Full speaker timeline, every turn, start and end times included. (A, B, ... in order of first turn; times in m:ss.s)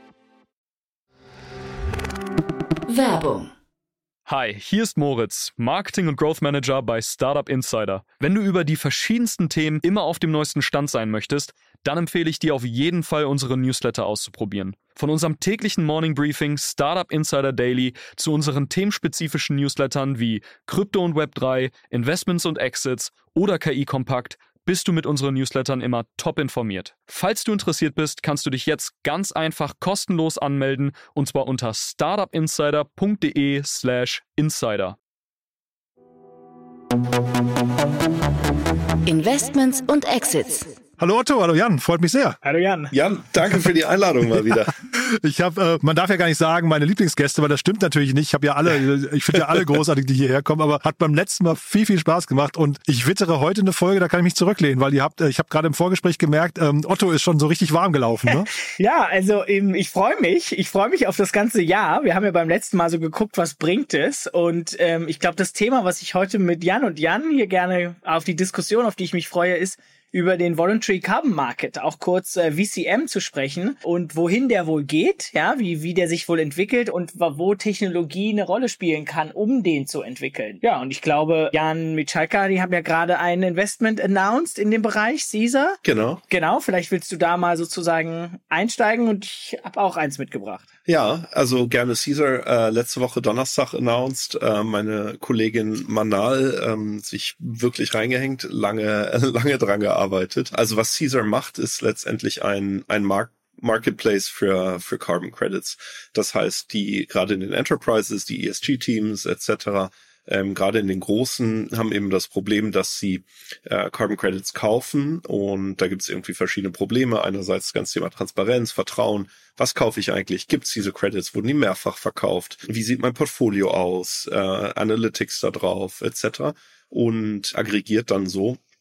0:02.9-0:03.5 A
0:04.2-0:35.0 B
0:39.1-0:40.8 A
0:41.0-0:42.4 C
0:42.4-0:42.9 D
0:42.9-0:44.8 E
0:44.5-0:58.5 C
0:58.8-1:30.7 D
1:25.8-1:26.2 E
1:30.8-2:08.6 E